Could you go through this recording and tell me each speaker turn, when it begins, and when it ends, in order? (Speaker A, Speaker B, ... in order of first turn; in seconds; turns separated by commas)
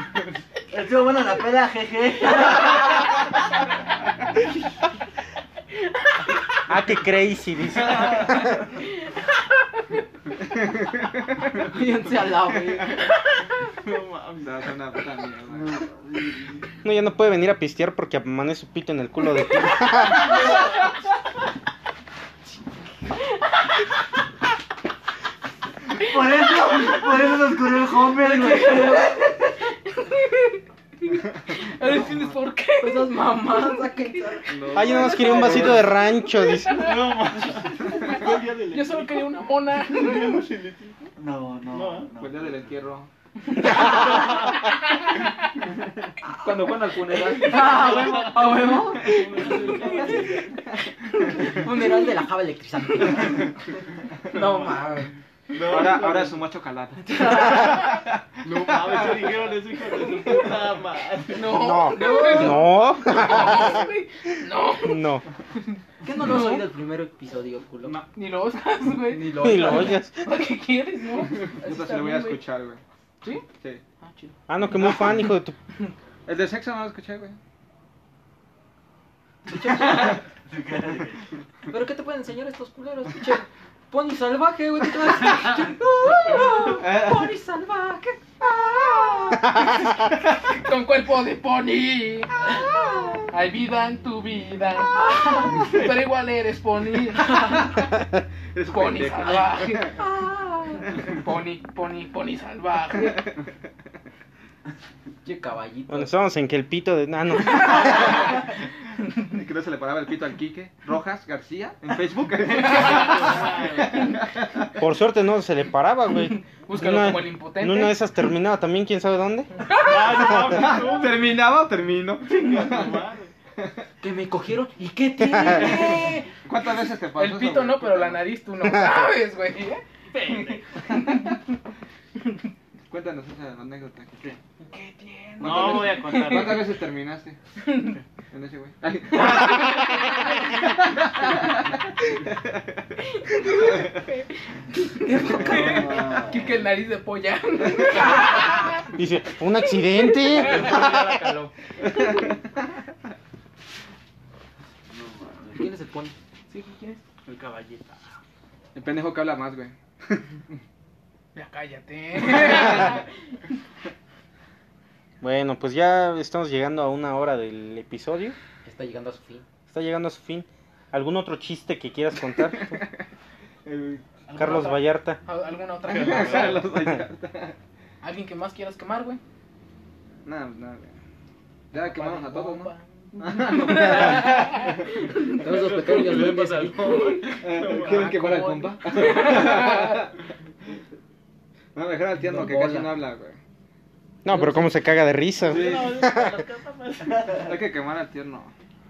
Speaker A: 0.7-3.2, Speaker B: 6.7-8.6, Speaker C: 8.4-8.7, Speaker D: 10.6-11.6, Speaker E: 11.6-13.0, Speaker D: 12.2-13.1, Speaker F: 13.8-14.6, Speaker D: 14.4-15.8, Speaker A: 15.5-16.6, Speaker B: 16.8-20.4, Speaker C: 23.2-23.8, Speaker A: 25.9-29.3, Speaker E: 28.2-29.2, Speaker C: 29.8-40.5, Speaker E: 32.8-35.8, Speaker D: 34.5-35.8, Speaker B: 34.7-36.9, Speaker F: 36.7-41.1, Speaker A: 41.2-42.5, Speaker F: 41.7-42.2, Speaker D: 42.2-43.1, Speaker C: 43.9-44.2, Speaker D: 46.3-48.0, Speaker E: 47.3-50.3, Speaker F: 48.6-50.5, Speaker E: 51.3-53.5, Speaker E: 54.3-55.1, Speaker F: 55.5-56.4, Speaker D: 55.6-59.4, Speaker E: 57.1-57.8, Speaker F: 58.4-61.5, Speaker C: 61.3-66.6, Speaker B: 61.5-63.9, Speaker E: 62.0-62.5, Speaker B: 64.9-65.2, Speaker E: 66.0-68.0, Speaker C: 68.1-72.4, Speaker E: 69.1-70.0, Speaker B: 69.4-70.2, Speaker D: 71.4-72.8, Speaker C: 73.2-73.5, Speaker C: 74.0-74.3, Speaker B: 74.5-75.5, Speaker D: 76.3-77.4, Speaker E: 79.5-80.2, Speaker A: 79.5-81.2, Speaker E: 81.7-89.4, Speaker D: 86.7-87.3, Speaker C: 90.4-92.4, Speaker C: 93.3-98.0, Speaker D: 98.5-100.0, Speaker C: 98.7-100.1, Speaker E: 100.0-101.0, Speaker C: 101.0-103.3, Speaker E: 105.2-106.1, Speaker B: 105.9-108.3, Speaker D: 109.2-114.7, Speaker F: 112.5-114.2, Speaker B: 114.8-119.5, Speaker C: 116.6-118.0, Speaker C: 119.6-120.4, Speaker F: 119.7-121.3, Speaker D: 120.2-123.0, Speaker F: 122.3-123.3, Speaker E: 124.0-126.3, Speaker C: 125.8-126.1, Speaker D: 126.5-128.3, Speaker C: 127.1-131.4, Speaker F: 130.1-130.8, Speaker D: 132.9-134.3, Speaker C: 134.7-136.6, Speaker F: 135.4-136.7, Speaker D: 135.4-137.4, Speaker C: 137.6-138.0, Speaker D: 138.3-142.9, Speaker C: 139.1-140.4, Speaker C: 143.0-149.0, Speaker D: 143.5-143.9, Speaker E: 145.0-146.0, Speaker A: 145.5-146.6, Speaker B: 148.9-151.1, Speaker C: 149.7-150.7, Speaker E: 150.3-151.5, Speaker A: 154.9-155.7, Speaker E: 155.6-156.1, Speaker C: 156.5-157.0, Speaker F: 157.2-158.2, Speaker D: 158.8-160.3, Speaker C: 161.3-163.1, Speaker B: 165.2-168.4, Speaker E: 168.7-169.5, Speaker B: 169.7-172.8, Speaker D: 173.7-174.1, Speaker C: 174.3-176.7, Speaker B: 174.4-175.2, Speaker D: 175.9-177.6, Speaker F: 175.9-176.6, Speaker C: 178.0-179.2, Speaker D: 180.2-180.9, Speaker D: 181.7-184.3, Speaker C: 181.7-185.4, Speaker E: 185.3-187.2, Speaker F: 185.4-188.2, Speaker C: 187.1-190.1, Speaker D: 187.4-190.1, Speaker D: 191.8-193.4, Speaker E: 192.2-193.0, Speaker B: 194.2-196.4, Speaker E: 194.3-194.9, Speaker F: 195.4-197.5, Speaker D: 195.5-196.0, Speaker D: 197.4-198.5